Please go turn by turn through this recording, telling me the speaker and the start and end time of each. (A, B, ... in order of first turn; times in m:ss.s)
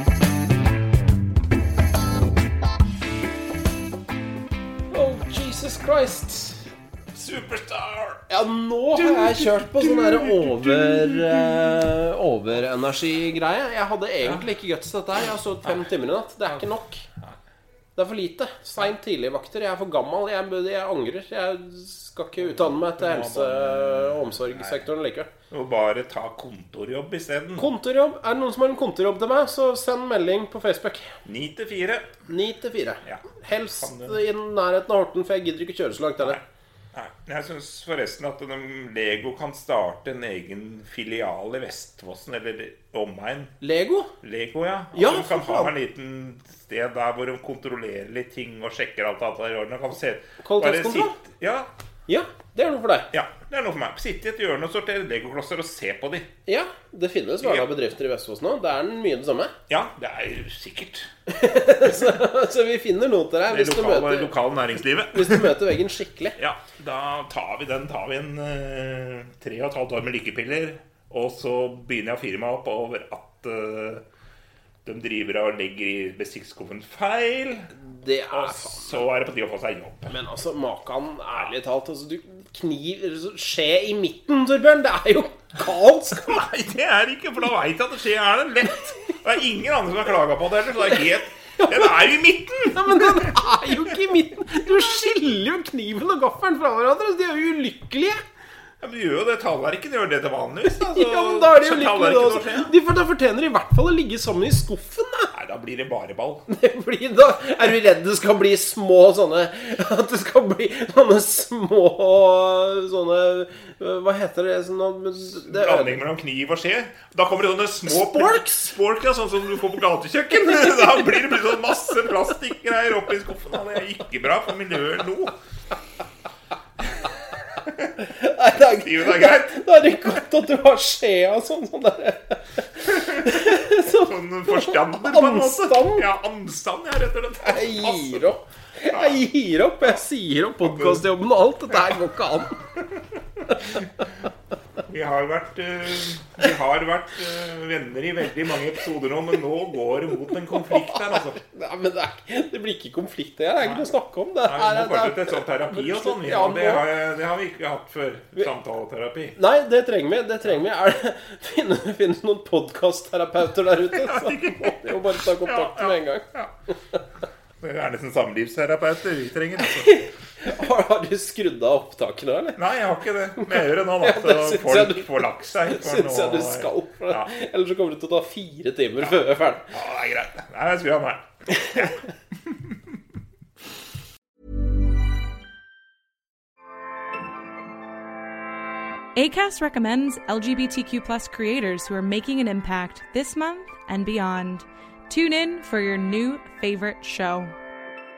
0:04.9-0:06.7 A
0:07.1-0:08.3 B
0:08.3-0:17.1 A
0:08.9-0:11.7 B
0:18.0-0:25.3 A
0:22.4-0:24.9 B
0:25.5-0:27.7 B
0:27.6-0:31.1 A
0:31.2-0:32.1 B
0:32.3-0:36.4 A
0:33.8-0:34.2 B
0:36.2-0:43.5 B
0:43.6-0:44.1 A
0:44.2-0:51.7 B
0:44.9-0:45.7 A
0:50.4-0:51.2 A
0:52.1-0:53.1 A
0:53.1-0:56.3 B
0:56.4-0:59.5 A
0:57.4-0:57.7 B
0:59.7-1:01.1 B
1:01.3-1:04.3 A
1:03.5-1:05.6 B
1:05.1-1:06.4 A
1:06.4-1:14.0 B
1:14.8-1:17.7 B
1:17.7-1:19.0 A
1:18.3-1:20.1 B
1:20.1-1:26.4 A
1:26.2-1:33.4 B
1:31.6-1:32.1 A
1:32.6-1:38.2 A
1:38.8-1:42.7 B
1:40.7-1:45.3 A
1:45.3-1:46.4 B
1:46.5-1:56.0 A
1:55.4-2:05.4 B
1:57.9-1:58.7 A
2:00.5-2:01.0 A
2:08.0-2:16.0 A
2:08.8-2:09.6 B
2:13.1-2:19.2 B
2:17.4-2:22.6 A
2:20.6-2:21.0 B
2:23.5-2:23.8 A
2:24.9-2:31.4 B
2:30.6-2:36.8 A
2:34.4-2:39.4 B
2:39.4-2:46.2 A
2:43.9-2:46.5 B
2:47.6-2:50.0 B
2:49.7-2:52.6 A
2:52.6-2:57.3 B
2:53.4-2:59.7 A
2:59.7-3:02.8 B
3:01.6-3:01.9 A
3:09.2-3:17.5 C